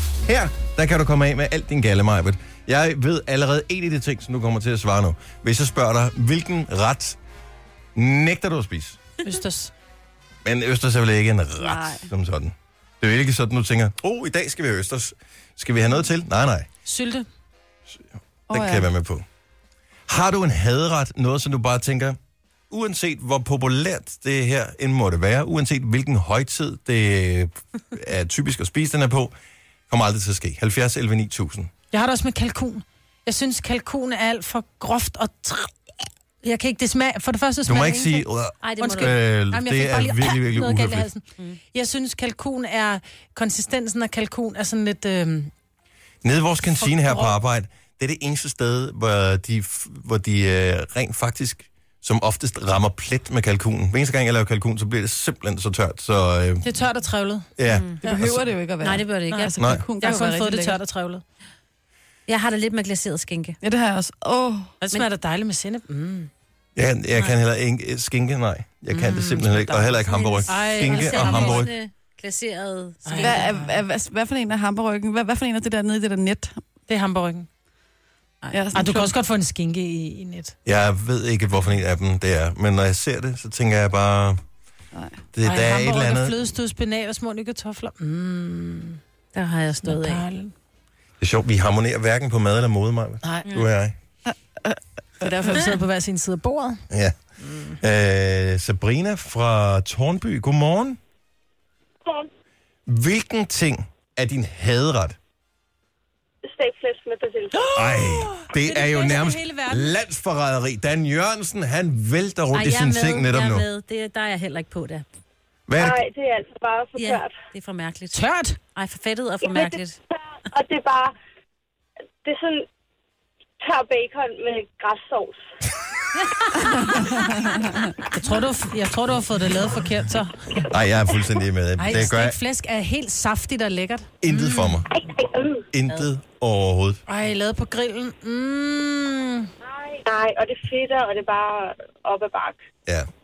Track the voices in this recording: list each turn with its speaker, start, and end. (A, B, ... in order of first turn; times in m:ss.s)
0:00.2-0:07.2 A
0:08.0-0:09.0 A
0:09.2-0:09.7 B
0:10.4-0:16.7 A
0:11.6-0:12.1 C
0:16.8-0:17.3 B
0:18.5-0:18.9 C
0:18.5-0:19.2 A
0:20.1-0:22.2 A
0:22.7-0:29.3 A
0:29.9-0:31.7 A
0:31.9-0:35.7 B
0:36.4-0:38.3 B
0:37.6-0:41.1 A
0:38.6-0:39.1 D
0:38.8-0:45.5 B
0:46.2-0:56.7 A
0:46.6-0:47.4 B
0:56.6-0:57.5 B
0:57.6-0:58.5 A
0:57.6-0:58.1 D
0:58.0-1:00.8 C
0:58.8-0:59.5 D
0:59.3-1:01.2 B
0:59.6-0:59.8 A
1:02.3-1:03.6 D
1:03.6-1:04.7 C
1:04.8-1:06.3 B
1:06.8-1:11.7 A
1:08.9-1:13.4 D
1:10.5-1:11.7 B
1:13.0-1:13.8 B
1:13.2-1:16.5 C
1:16.9-1:17.5 B
1:18.5-1:19.1 C
1:18.7-1:20.5 B
1:20.6-1:24.4 A
1:24.9-1:25.2 C
1:25.3-1:26.4 A
1:25.4-1:29.0 B
1:29.3-1:30.2 D
1:29.8-1:30.5 B
1:31.2-1:33.9 A
1:33.2-1:33.5 B
1:34.3-1:35.8 C
1:35.2-1:36.8 B
1:36.9-1:37.2 A
1:37.7-1:41.0 A
1:42.9-1:45.2 A
1:46.4-1:47.8 E
1:47.5-1:49.9 B
1:47.7-1:53.7 A
1:52.5-1:55.0 D
1:55.7-1:56.0 A
1:55.8-1:57.3 E
1:57.0-2:00.0 D
1:58.1-1:58.6 B
1:59.4-2:01.1 E
2:02.2-2:02.7 E
2:03.6-2:05.4 E
2:06.8-2:07.1 D
2:08.2-2:10.6 B
2:10.7-2:12.4 A
2:11.8-2:14.8 B
2:14.2-2:14.9 A
2:14.9-2:15.6 E
2:15.7-2:17.0 A
2:17.1-2:19.5 B
2:19.7-2:22.6 E